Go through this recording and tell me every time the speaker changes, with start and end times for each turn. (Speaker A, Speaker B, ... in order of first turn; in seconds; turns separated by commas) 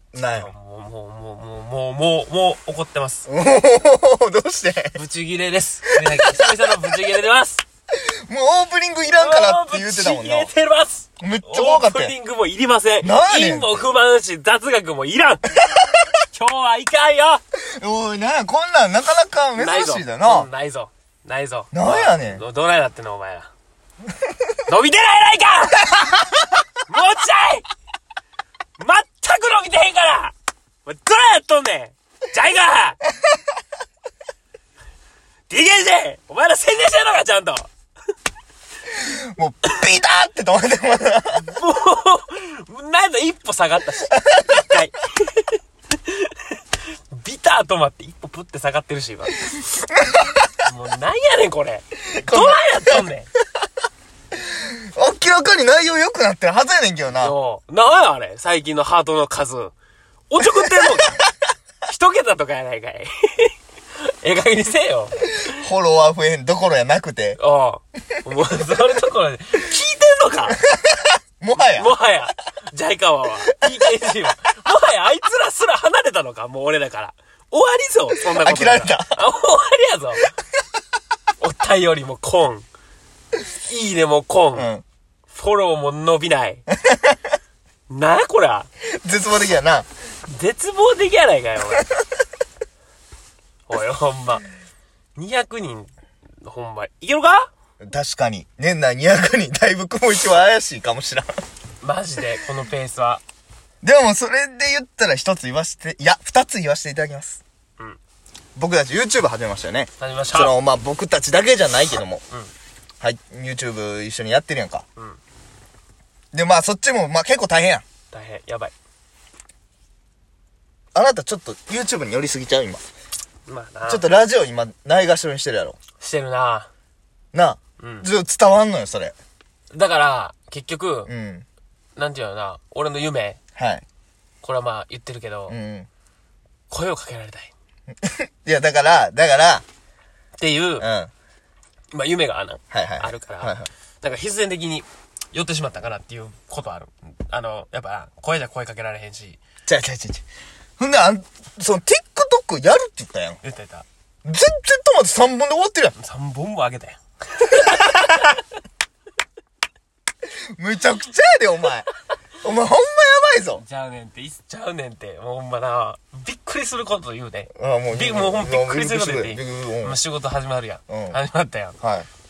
Speaker A: 0.1-0.5, Speaker B: 0.2-3.3, Speaker A: 3.3-5.0, Speaker B: 5.0-7.6, Speaker A: 6.0-6.6, Speaker A: 8.0-10.5, Speaker B: 9.1-15.6, Speaker A: 11.2-12.1, Speaker A: 13.0-13.8, Speaker A: 15.7-15.9, Speaker B: 16.3-17.4, Speaker A: 17.6-20.5, Speaker B: 19.6-23.5, Speaker A: 21.7-22.4, Speaker B: 24.7-26.0, Speaker A: 25.8-26.6, Speaker B: 26.9-27.7, Speaker B: 28.8-30.3, Speaker B: 30.9-33.0, Speaker B: 35.5-37.7, Speaker A: 38.9-41.5, Speaker B: 41.4-49.4, Speaker A: 44.1-44.8, Speaker A: 49.4-50.6, Speaker B: 50.6-53.3, Speaker A: 52.1-53.0, Speaker A: 54.4-57.3, Speaker B: 57.2-59.7, Speaker B: 60.3-61.2, Speaker A: 60.4-61.3, Speaker B: 61.8-65.5, Speaker A: 65.4-67.4, Speaker B: 67.4-70.6, Speaker A: 70.6-72.0, Speaker B: 71.6-80.3, Speaker A: 73.7-73.9, Speaker A: 78.3-79.2, Speaker B: 81.4-82.7, Speaker B: 83.5-84.7, Speaker A: 84.5-84.8, Speaker B: 85.3-86.7, Speaker A: 86.8-87.2, Speaker B: 87.9-88.7, Speaker A: 89.0-89.9, Speaker B: 90.3-91.9, Speaker B: 93.7-94.5, Speaker B: 95.2-95.9, Speaker B: 96.4-97.5, Speaker A: 97.8-101.3, Speaker B: 101.8-103.2, Speaker A: 103.8-107.4, Speaker A: 108.6-112.2, Speaker B: 110.0-110.6, Speaker A: 113.0-114.8, Speaker A: 116.3-117.8, Speaker B: 118.1-118.7, Speaker A: 121.0-122.8, Speaker B: 123.5-124.1, Speaker A: 123.9-125.8, Speaker B: 126.0-126.7, Speaker A: 127.3-129.2, Speaker B: 127.8-128.1, Speaker B: 129.7-131.1, Speaker A: 131.1-131.5, Speaker B: 132.0-133.4, Speaker A: 133.6-133.8, Speaker B: 134.4-135.6, Speaker A: 135.5-135.9, Speaker B: 136.7-137.5, Speaker A: 138.0-139.6, Speaker B: 140.4-140.9, Speaker A: 140.8-141.1, Speaker B: 141.9-149.4, Speaker A: 142.7-143.7, Speaker A: 149.7-150.2, Speaker A: 150.8-153.4, Speaker B: 153.4-153.8, Speaker A: 154.2-155.9, Speaker B: 156.0-158.4, Speaker A: 157.6-158.0, Speaker A: 160.2-161.9, Speaker A: 162.4-163.6, Speaker B: 163.6-171.8, Speaker A: 167.5-170.0, Speaker A: 170.9-171.2, Speaker A: 171.8-172.1